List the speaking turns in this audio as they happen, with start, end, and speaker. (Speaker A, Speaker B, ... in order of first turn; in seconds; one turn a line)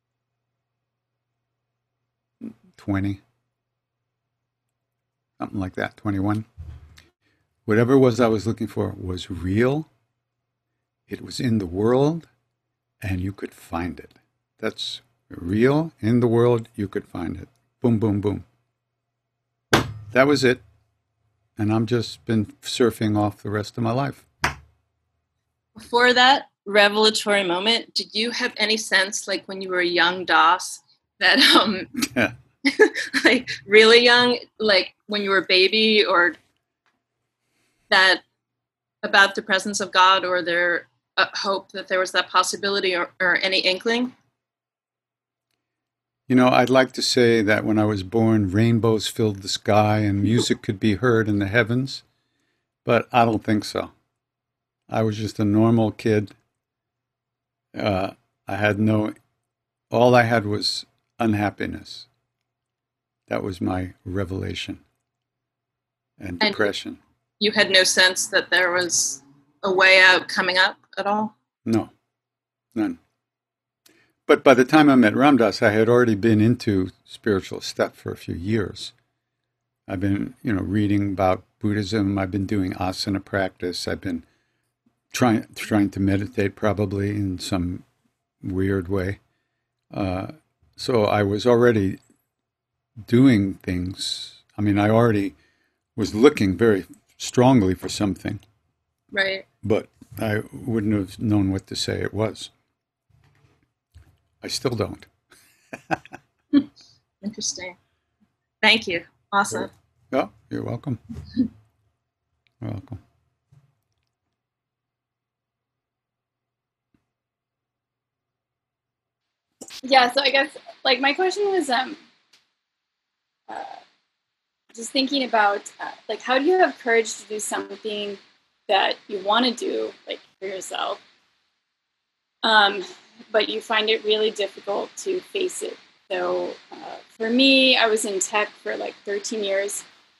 Speaker A: 2.4-3.2
Speaker A: 5.4-6.5
Speaker A: 7.7-9.9
Speaker A: 11.1-12.3
Speaker A: 13.0-18.4
Speaker A: 20.1-20.6
Speaker A: 21.6-24.3
Speaker B: 25.8-32.0
Speaker A: 32.0-32.4
Speaker B: 32.7-36.4
Speaker B: 37.9-38.2
Speaker B: 39.0-44.1
Speaker A: 46.3-52.0
Speaker A: 52.9-53.9
Speaker A: 54.9-56.4
Speaker A: 57.7-59.1
Speaker A: 59.9-62.1
Speaker A: 63.3-64.8
Speaker A: 66.2-67.0
Speaker B: 66.4-66.7
Speaker B: 67.4-71.3
Speaker A: 71.6-71.9
Speaker A: 74.3-78.9
Speaker A: 79.9-84.2
Speaker A: 85.1-87.8
Speaker A: 88.4-89.2
Speaker A: 89.9-92.0
Speaker A: 93.0-95.3
Speaker A: 96.0-98.4
Speaker B: 99.1-99.5
Speaker A: 99.6-102.5
Speaker A: 104.4-105.1
Speaker B: 107.2-107.8
Speaker B: 108.6-109.7
Speaker A: 110.1-111.0
Speaker A: 112.6-113.0
Speaker C: 119.8-122.0
Speaker C: 123.5-123.8
Speaker C: 124.7-131.0
Speaker C: 132.4-139.8